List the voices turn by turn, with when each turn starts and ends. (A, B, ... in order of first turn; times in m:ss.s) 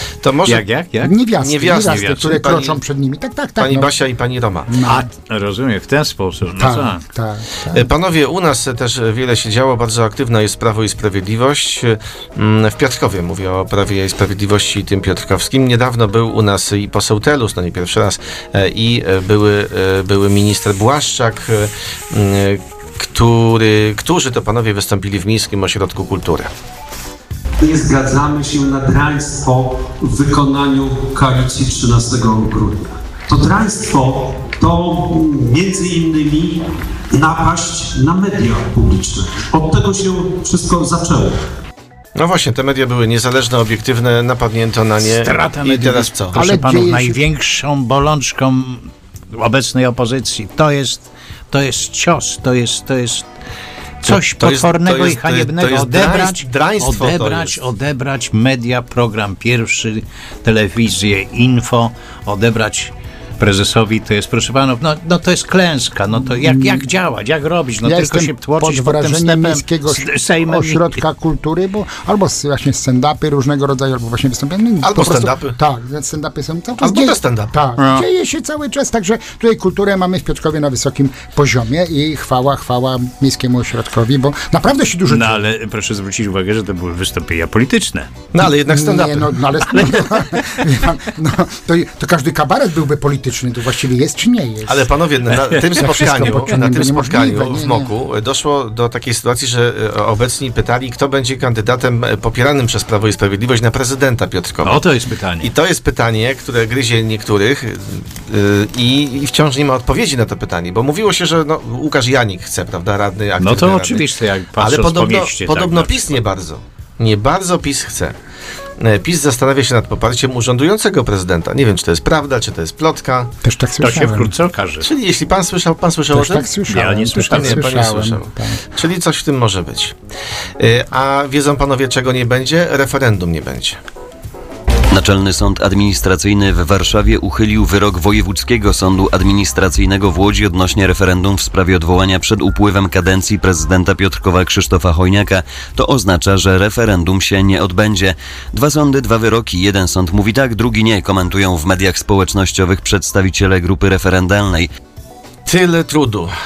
0:00.2-0:00.8 A
0:00.4-0:01.2 B
0:01.0-0:03.9 C
0:01.4-0:02.8 A
0:03.6-0:04.7 A
0:04.7-0:05.1 C
0:04.9-0:07.0 B
0:06.6-0:07.9 C
0:07.7-0:26.5 A
0:27.6-0:36.6 D
0:37.1-0:41.4 D
0:42.2-0:46.5 A
0:45.0-0:53.2 B
0:46.3-0:47.2 C
0:54.0-1:11.0 B
0:54.1-0:57.6 A
1:06.3-1:06.9 C
1:07.8-1:25.5 C
1:14.8-1:15.6 A
1:16.8-1:17.5 A
1:17.8-1:18.0 B
1:25.1-1:28.1 B
1:28.3-1:29.9 A
1:28.6-1:34.9 C
1:34.7-1:44.9 A
1:35.8-1:37.9 C
1:44.6-1:45.5 B
1:45.4-1:58.2 A
1:53.4-1:56.2 B
1:58.8-2:03.3 A
2:03.4-2:04.3 C
2:03.8-2:04.9 B
2:04.8-2:06.5 A
2:06.1-2:08.7 C
2:06.7-2:07.9 B
2:07.3-2:09.9 A
2:10.6-2:13.8 A
2:14.9-2:34.7 E
2:35.4-2:36.3 A